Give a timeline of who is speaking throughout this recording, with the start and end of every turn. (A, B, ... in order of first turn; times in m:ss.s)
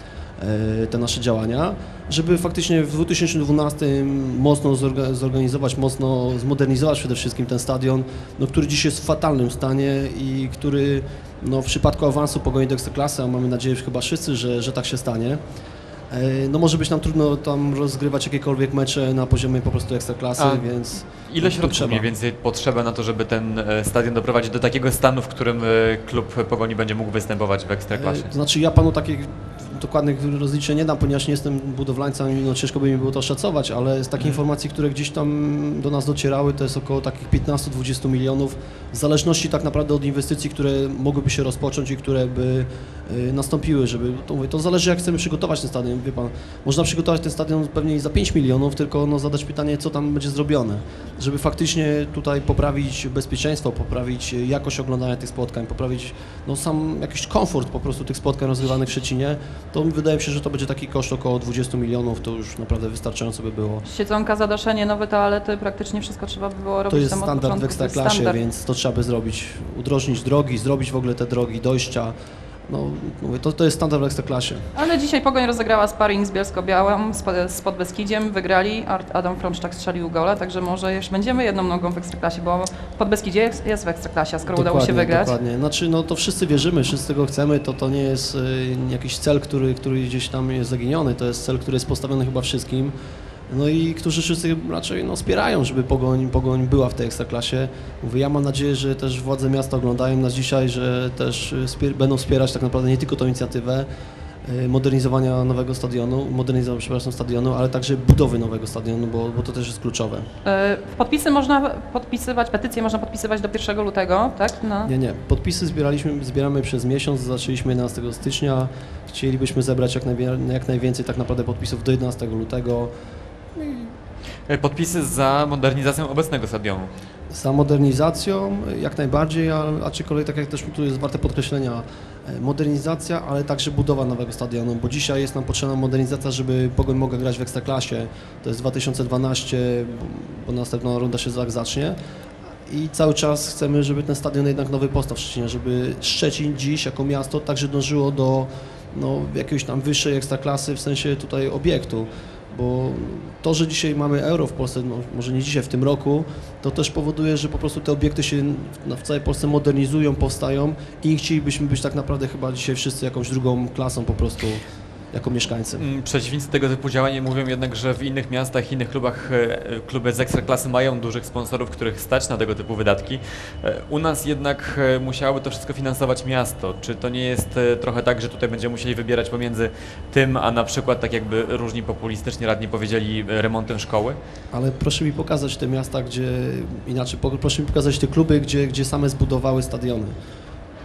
0:00.4-0:15.4 A
0:16.1-0:22.0 A
0:20.4-0:28.3 B
0:27.9-1:03.8 A
1:03.8-1:08.4 C
1:06.9-1:12.1 A
1:12.7-1:14.7 A
1:14.7-1:25.3 C
1:24.5-1:32.9 A
1:33.5-1:43.9 A
1:44.4-1:50.3 A
1:50.4-1:54.9 C
1:54.8-2:02.9 A
2:03.6-2:03.9 A
2:04.5-2:06.9 B
2:07.3-2:22.0 A
2:22.7-2:45.8 A
2:45.8-3:04.2 B
3:04.5-3:10.1 A